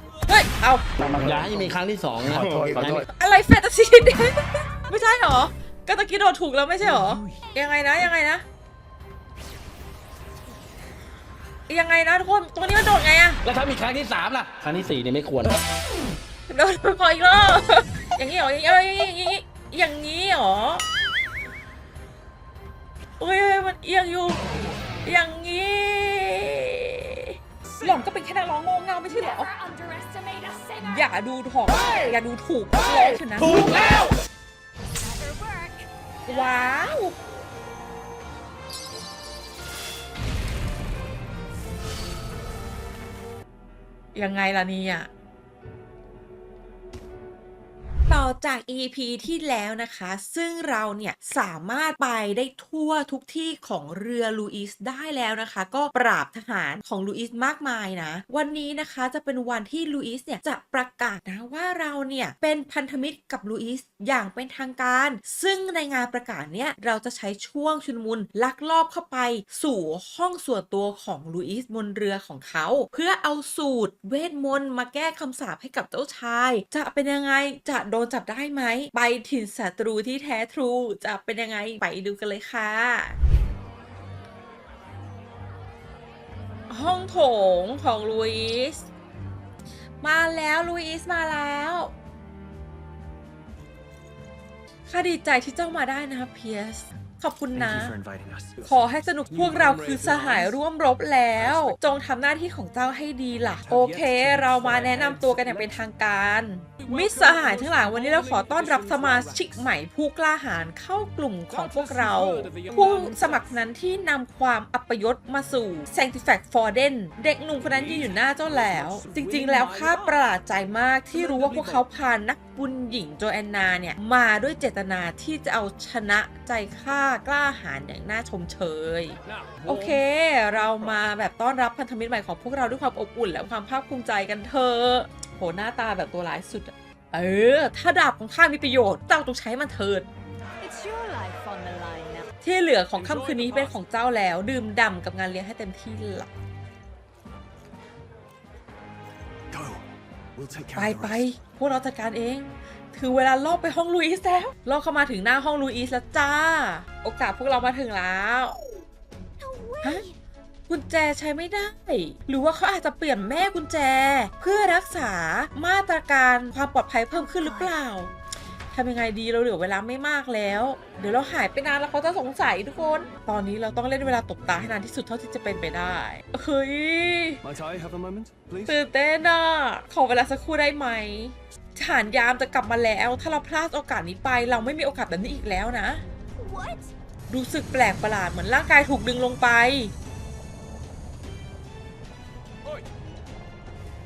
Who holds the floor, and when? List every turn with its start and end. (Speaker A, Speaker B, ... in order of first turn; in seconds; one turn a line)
Speaker A: 0.3-0.8
Speaker B: 1.0-3.1
Speaker A: 3.2-8.4
Speaker C: 7.4-7.8
Speaker A: 11.7-13.4
Speaker B: 13.4-15.6
Speaker A: 16.5-20.8
Speaker A: 23.2-24.4
Speaker A: 25.0-29.5
Speaker C: 29.1-31.1
Speaker A: 30.8-34.0
Speaker C: 35.0-37.0
Speaker A: 36.3-37.1
Speaker A: 44.1-45.1
Speaker A: 48.1-83.2
Speaker A: 86.7-88.9
Speaker A: 90.0-91.9
Speaker A: 94.9-97.9
Speaker D: 97.5-98.7
Speaker A: 98.6-140.1
Speaker D: 99.3-100.5
Speaker D: 101.3-101.8
Speaker D: 103.6-105.8
Speaker D: 106.8-109.7
Speaker D: 111.5-113.5
Speaker D: 117.6-120.2
Speaker D: 121.1-121.8
Speaker D: 129.2-130.0
Speaker D: 130.5-131.0
Speaker C: 140.6-142.3
Speaker A: 142.4-146.3
Speaker D: 143.3-143.7
Speaker D: 149.5-149.8
Speaker D: 150.3-151.2
Speaker A: 150.7-158.6
Speaker C: 159.4-160.2
Speaker A: 160.7-168.1
Speaker C: 167.1-167.7
Speaker A: 168.7-177.4
Speaker D: 177.4-178.7
Speaker A: 178.7-186.0
Speaker C: 186.3-186.9
Speaker A: 187.3-189.9